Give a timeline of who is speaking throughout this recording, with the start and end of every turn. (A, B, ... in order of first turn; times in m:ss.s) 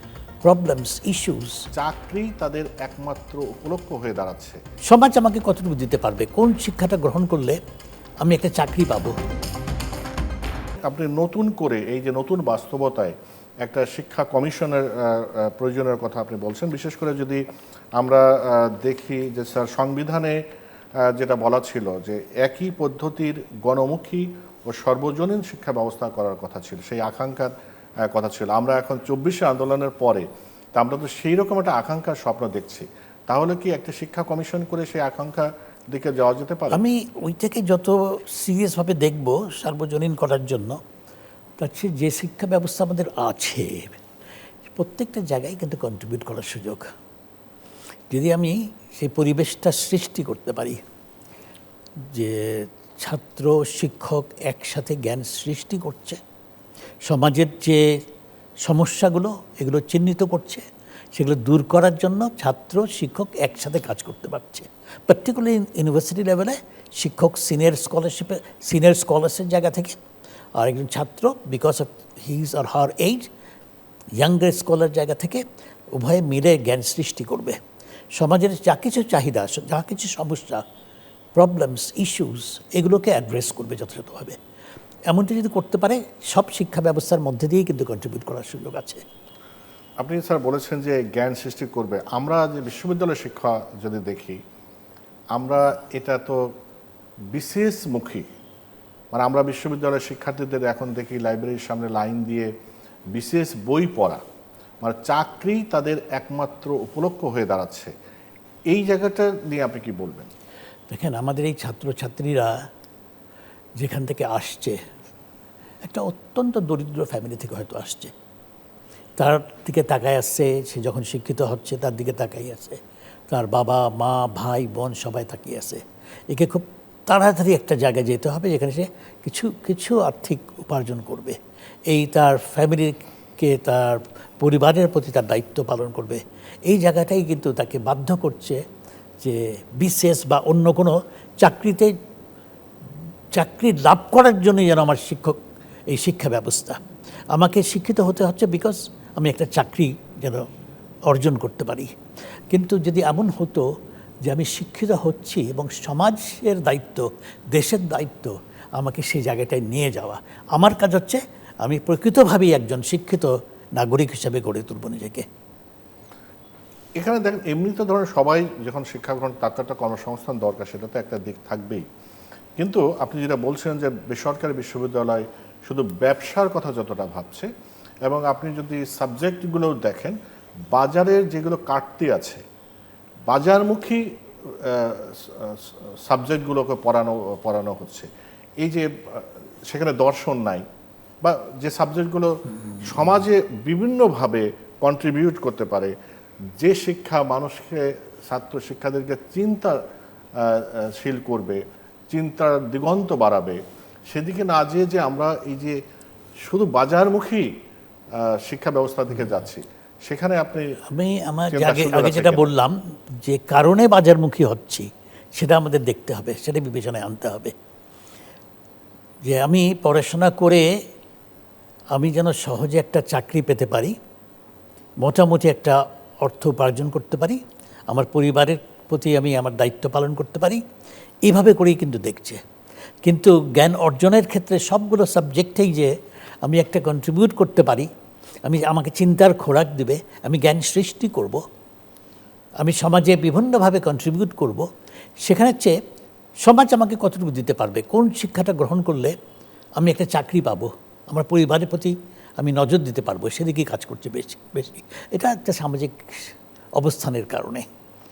0:00.4-0:01.6 A
0:01.7-0:04.6 B
0:04.8-0:07.6 A
0:08.2-0:09.2 A
0:10.9-0:17.4 B
0:18.0-0:20.4 B
0:21.0-0:27.5 B
0:28.0-0:36.8 B
0:36.7-0:40.8 A
0:41.6-0:44.0 A
0:44.7-0:46.8 A
0:48.1-0:50.8 A
0:52.1-0:56.2 A
0:57.0-0:58.0 A
0:58.6-1:10.0 A
1:10.6-1:13.3 A
1:14.2-1:15.4 A
1:15.9-1:17.6 A
1:18.1-1:20.6 A
1:21.4-1:24.4 A
1:25.1-1:29.0 A
1:30.0-1:34.4 B
1:35.4-1:36.5 B
1:37.3-1:38.2 B
1:39.1-1:42.5 B
1:43.1-1:44.2 B
1:44.8-1:47.9 B
1:48.7-1:50.3 B
1:50.9-1:52.6 A
1:53.8-1:54.8 A
1:55.8-1:58.1 A
1:59.2-2:11.4 A
2:11.9-2:18.6 A
2:19.2-2:21.9 A
2:23.3-2:26.8 A
2:27.3-2:30.4 A
2:31.1-2:31.9 A
2:32.5-2:33.7 A
2:34.2-2:45.2 A
2:47.0-2:51.8 B
2:52.6-2:57.5 B
2:58.0-3:00.2 B
3:00.7-3:02.4 B
3:03.3-3:08.1 B
3:08.6-3:10.6 B
3:11.2-3:15.9 B
3:16.6-3:19.8 B
3:20.4-3:23.6 B
3:24.1-3:25.8 B
3:26.5-3:27.5 B
3:28.1-3:30.8 B
3:30.9-3:37.5 A
3:31.5-3:32.5 B
3:39.2-3:40.7 A
3:41.9-3:44.0 A
3:45.0-3:47.4 A
3:47.9-3:50.6 A
3:51.2-3:52.4 A
3:53.0-3:57.9 A
3:58.4-4:01.4 A
4:02.6-4:04.7 A
4:05.2-4:05.8 A
4:06.4-4:09.2 A
4:09.8-4:17.6 A